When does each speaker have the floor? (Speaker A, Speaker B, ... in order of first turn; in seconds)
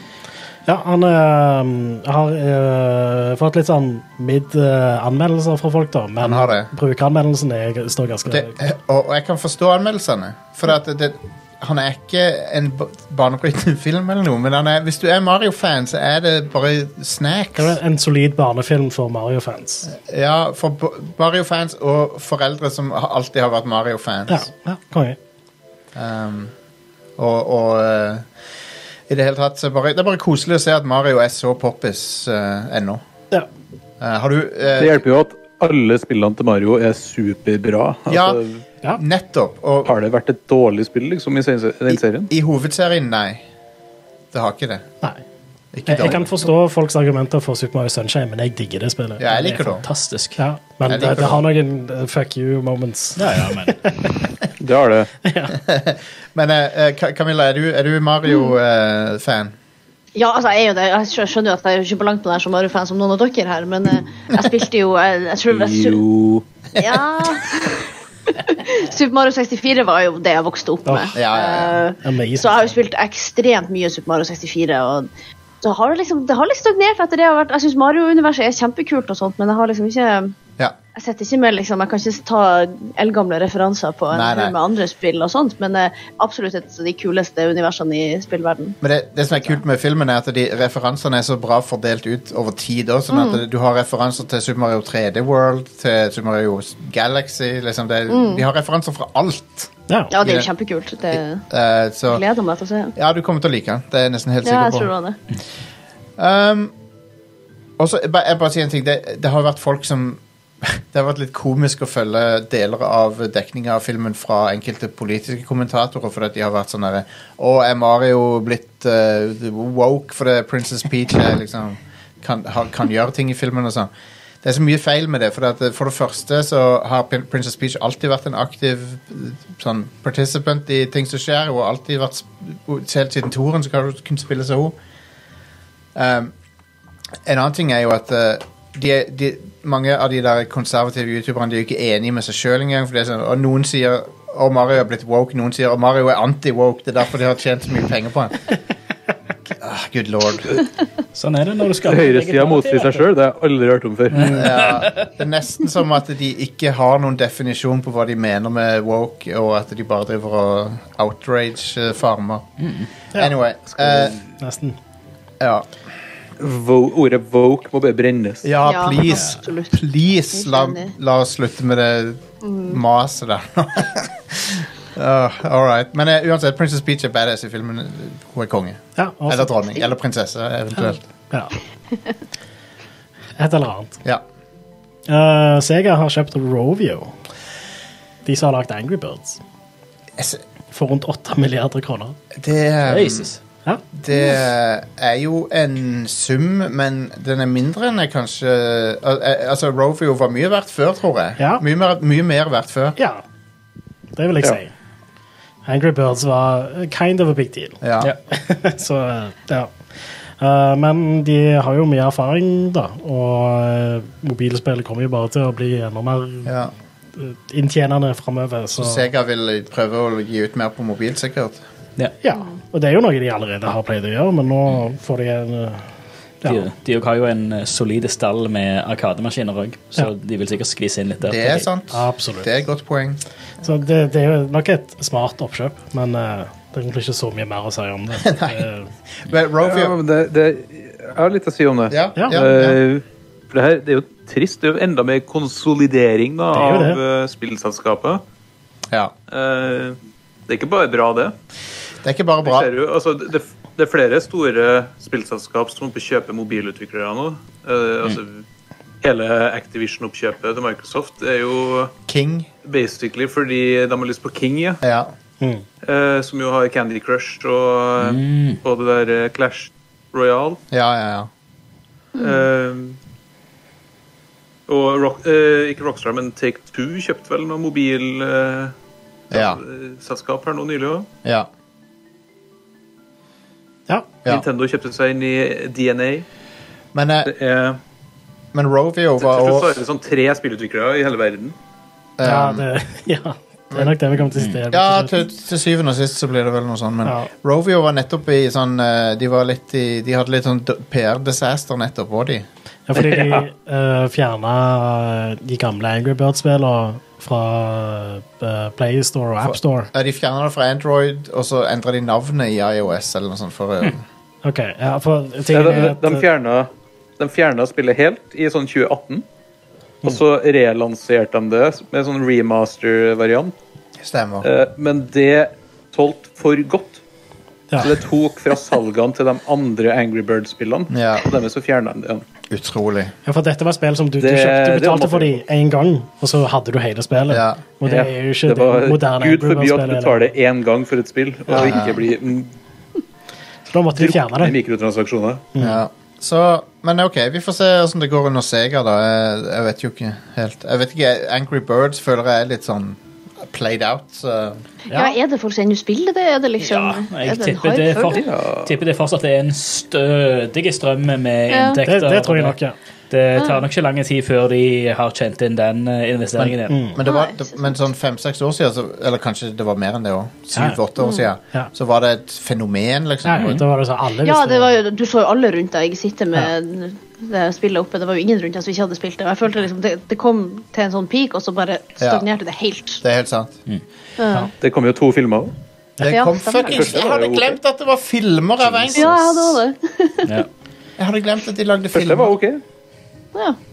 Speaker A: 0.7-8.6, 17.6-19.9, 24.3-25.2, 45.9-49.8, 50.4-54.1, 55.2-55.5, 70.9-71.2, 72.0-72.7, 99.9-100.1, 164.4-164.8, 178.9-179.6, 180.7-181.5, 183.4-184.0, 185.1-187.1, 188.2-189.4, 190.7-192.2, 201.4-201.6, 203.0-203.2, 204.2-204.7, 205.7-209.7, 210.4-216.5, 217.2-219.1, 222.2-225.9, 226.4-226.7, 231.9-232.5, 233.6-238.9, 242.2-242.4, 246.5-247.0, 265.4-265.6, 283.9-284.1, 292.2-295.2, 297.0-297.3, 302.9-309.9, 314.4-316.2, 327.7-328.0, 333.2-340.3, 343.6-344.6, 345.5-345.8, 361.9-362.7, 366.4-367.0, 370.5-370.8, 373.2-374.7
Speaker B: 6.2-6.7, 8.3-17.8, 19.9-24.5, 25.9-26.5, 27.2-28.3, 29.1-33.0, 34.0-35.0, 38.1-38.4, 38.9-39.9, 41.9-43.4, 44.3-44.9, 45.7-46.3, 49.2-49.8, 50.9-51.4, 55.6-59.5, 71.1-71.8, 84.1-84.5, 88.8-100.5, 101.1-102.2, 103.0-104.9, 106.2-106.7, 107.8-123.9, 124.4-134.7, 135.9-136.3, 137.2-148.4, 149.6-150.5, 154.3-162.5, 163.1-164.2, 165.4-165.7, 168.4-181.0, 190.2-190.4, 192.3-193.3, 193.9-203.0, 207.8-208.1, 216.4-216.7, 218.8-221.6, 231.2-233.2, 238.2-238.6, 239.2-239.9, 241.9-242.8, 252.0-252.7, 262.1-262.5, 264.8-265.1, 270.7-271.3, 279.3-279.6, 281.2-281.5, 286.9-287.3, 288.5-289.8, 292.2-292.6, 294.7-302.4, 309.4-314.0, 324.0-324.5, 330.9-331.3, 332.5-333.1, 337.3-337.6, 341.5-342.0, 345.6-355.2, 366.9-373.6, 382.0-382.2, 383.0-383.6, 386.0-389.6, 391.0-392.4
Speaker C: 34.8-38.6, 39.9-42.3, 54.6-55.1, 65.5-66.4, 151.8-154.5, 163.7-164.2, 166.4-168.5, 239.6-248.2, 249.3-250.0, 250.5-251.3, 252.4-258.4, 259.0-261.9, 262.6-264.8, 265.8-270.6, 272.1-273.0, 274.7-278.7, 279.3-281.1, 284.2-286.2, 287.2-287.8, 289.2-291.6, 302.9-303.4, 315.5-319.2, 320.0-323.5, 324.4-327.0, 327.8-332.2, 334.2-335.4, 337.8-342.5, 343.9-345.4, 358.1-358.7, 384.6-385.5, 386.7-387.6, 391.9-392.6
Speaker D: 49.8-50.4, 53.2-53.8, 151.1-153.1, 154.1-155.1, 162.6-162.9, 169.1-169.4, 192.8-193.4, 226.4-231.7, 268.0-268.6, 356.6-362.6, 363.1-366.8, 373.4-373.6, 388.8-389.1
Speaker E: 60.1-66.0, 66.8-75.1, 75.6-80.3, 80.9-88.8, 93.1-93.4, 98.1-98.4, 100.1-101.4, 102.1-102.9, 104.4-105.2, 168.6-170.9, 172.4-172.8, 272.1-272.4, 354.9-358.3, 361.5-361.8, 363.4-363.6, 367.0-367.7, 371.0-371.3, 374.2-383.0, 384.2-384.5, 386.1-387.1, 388.9-390.3